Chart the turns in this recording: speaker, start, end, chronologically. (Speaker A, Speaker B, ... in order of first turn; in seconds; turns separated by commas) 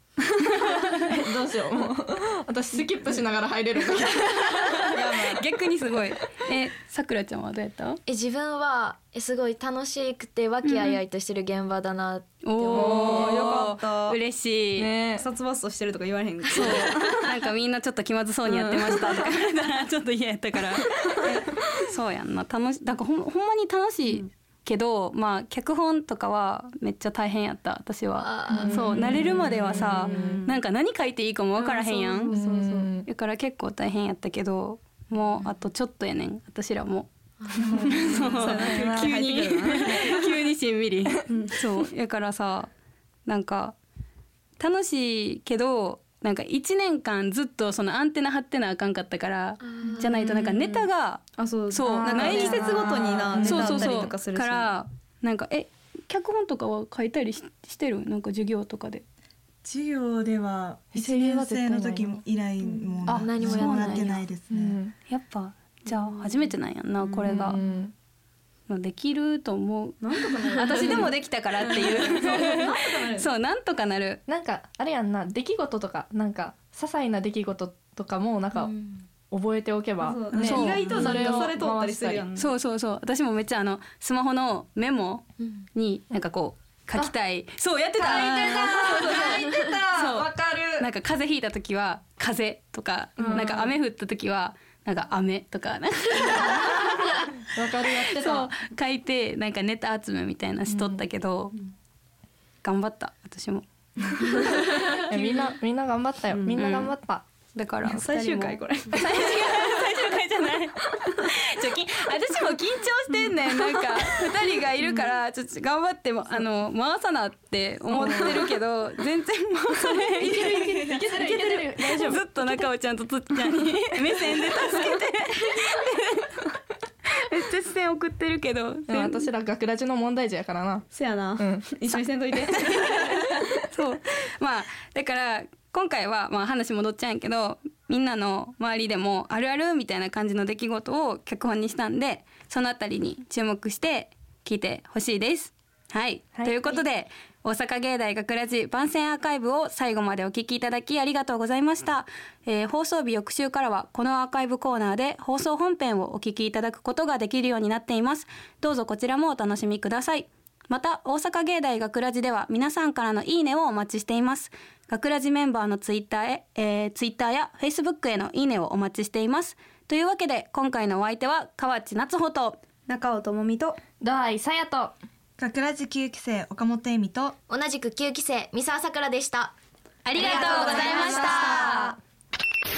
Speaker A: 0.4-1.1, Speaker B: 1.1-4.7, Speaker A: 4.1-8.0, Speaker C: 8.1-13.2, Speaker A: 10.6-11.0, Speaker A: 12.4-14.9, Speaker B: 12.7-13.7, Speaker D: 13.1-14.2, Speaker B: 14.8-15.3, Speaker D: 15.1-17.5, Speaker A: 16.5-32.4, Speaker D: 18.5-19.4, Speaker D: 21.0-21.4, Speaker C: 28.2-29.3, Speaker B: 28.5-30.5, Speaker D: 28.9-30.6, Speaker D: 31.6-33.0, Speaker B: 32.3-33.1, Speaker A: 33.1-42.7, Speaker C: 37.5-38.4, Speaker D: 37.6-40.5, Speaker B: 38.4-40.2, Speaker D: 41.3-41.6, Speaker A: 43.3-43.8, Speaker A: 44.6-59.0, Speaker C: 49.6-50.4, Speaker D: 49.9-50.9, Speaker D: 51.4-54.7, Speaker B: 51.9-53.9, Speaker E: 59.6-64.8, Speaker B: 60.9-62.2, Speaker C: 62.6-64.2, Speaker A: 63.1-64.2, Speaker B: 64.5-64.9, Speaker A: 65.1-67.6, Speaker B: 67.2-67.9, Speaker A: 68.7-74.2, Speaker D: 70.0-73.3, Speaker B: 74.3-78.8, Speaker C: 78.7-79.0, Speaker B: 79.3-82.2, Speaker D: 80.0-82.5, Speaker A: 80.3-81.5, Speaker A: 82.4-90.3, Speaker B: 88.0-90.9, Speaker A: 90.8-97.3, Speaker B: 93.2-93.7, Speaker B: 97.5-98.5, Speaker A: 98.0-101.5, Speaker B: 100.7-101.0, Speaker A: 102.6-105.2, Speaker D: 104.7-105.2, Speaker B: 104.9-107.2, Speaker D: 106.3-106.9, Speaker A: 107.6-126.4, Speaker D: 107.8-109.8, Speaker D: 113.2-113.8, Speaker D: 114.8-115.1, Speaker D: 117.9-118.5, Speaker B: 117.9-118.4, Speaker B: 120.2-122.0, Speaker D: 121.0-122.2, Speaker A: 127.1-129.3, Speaker B: 128.9-130.9, Speaker D: 130.9-133.2, Speaker B: 131.4-131.7, Speaker A: 132.6-172.6, Speaker B: 146.3-146.8, Speaker D: 172.9-173.8, Speaker B: 174.0-174.9, Speaker E: 175.4-177.4, Speaker C: 177.5-179.6, Speaker A: 180.1-181.9, Speaker C: 180.2-181.9, Speaker B: 180.2-181.9